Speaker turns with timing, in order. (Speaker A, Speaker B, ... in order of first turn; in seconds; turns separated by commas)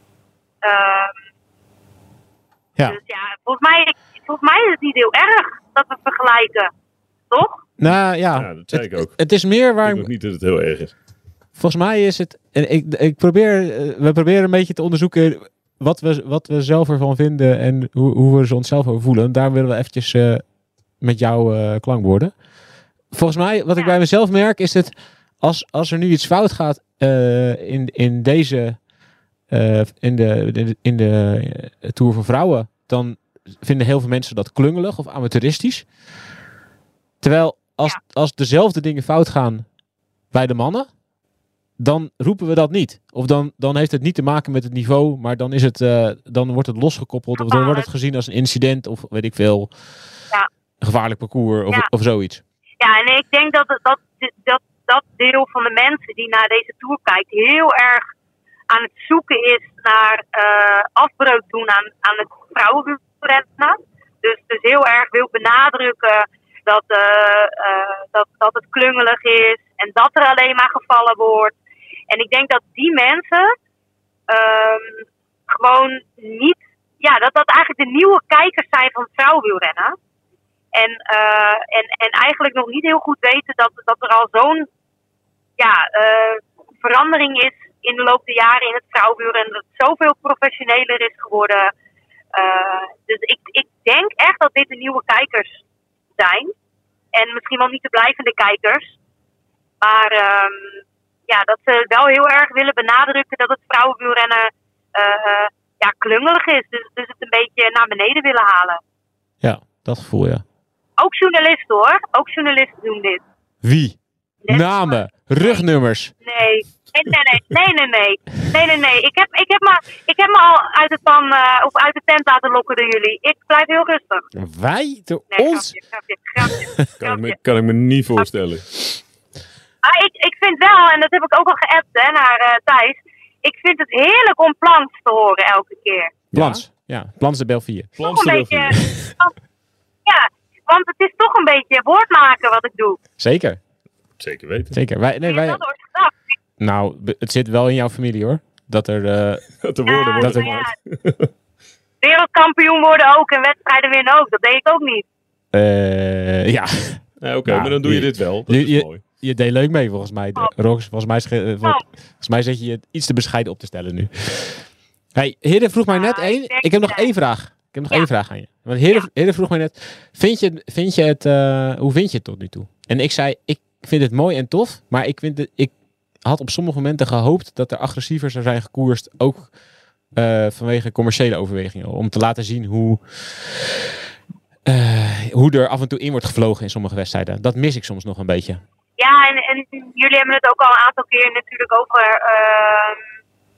Speaker A: 0.6-1.1, Speaker A: 2.9-6.7, Speaker A: 7.3-7.6, Speaker B: 7.8-10.1, Speaker C: 7.9-9.2, Speaker C: 9.8-10.9, Speaker B: 11.6-20.5, Speaker B: 21.0-22.3, Speaker B: 23.1-28.8, Speaker B: 29.5-35.9, Speaker B: 37.2-39.7, Speaker B: 40.3-40.9, Speaker B: 41.8-49.7, Speaker A: 47.4-47.9, Speaker B: 50.8-52.4, Speaker A: 52.8-58.0, Speaker A: 58.7-71.5, Speaker A: 72.1-73.5, Speaker A: 74.3-79.9, Speaker A: 80.7-84.7, Speaker A: 85.6-91.7, Speaker A: 92.3-95.6, Speaker A: 96.2-96.5, Speaker A: 97.1-98.9, Speaker A: 99.8-108.8, Speaker B: 109.4-110.4, Speaker A: 111.0-113.2, Speaker B: 113.6-114.0, Speaker A: 114.4-115.6, Speaker B: 114.5-116.1, Speaker A: 116.2-124.2, Speaker B: 124.3-125.7, Speaker A: 125.3-127.4, Speaker B: 126.4-126.9, Speaker C: 127.0-128.6, Speaker A: 129.8-136.1, Speaker C: 136.3-136.6, Speaker B: 136.3-137.9, Speaker C: 137.9-138.9, Speaker A: 138.0-139.3, Speaker A: 140.1-143.0, Speaker B: 143.2-143.6, Speaker C: 144.2-144.8, Speaker B: 144.7-145.6, Speaker A: 145.2-146.1, Speaker B: 146.6-149.5, Speaker C: 149.6-151.3, Speaker A: 149.8-150.7, Speaker B: 150.2-150.6, Speaker A: 152.0-155.0, Speaker B: 155.5-179.5, Speaker C: 157.2-159.0, Speaker A: 165.9-167.1, Speaker B: 180.2-183.8, Speaker B: 184.7-188.6, Speaker A: 189.0-193.0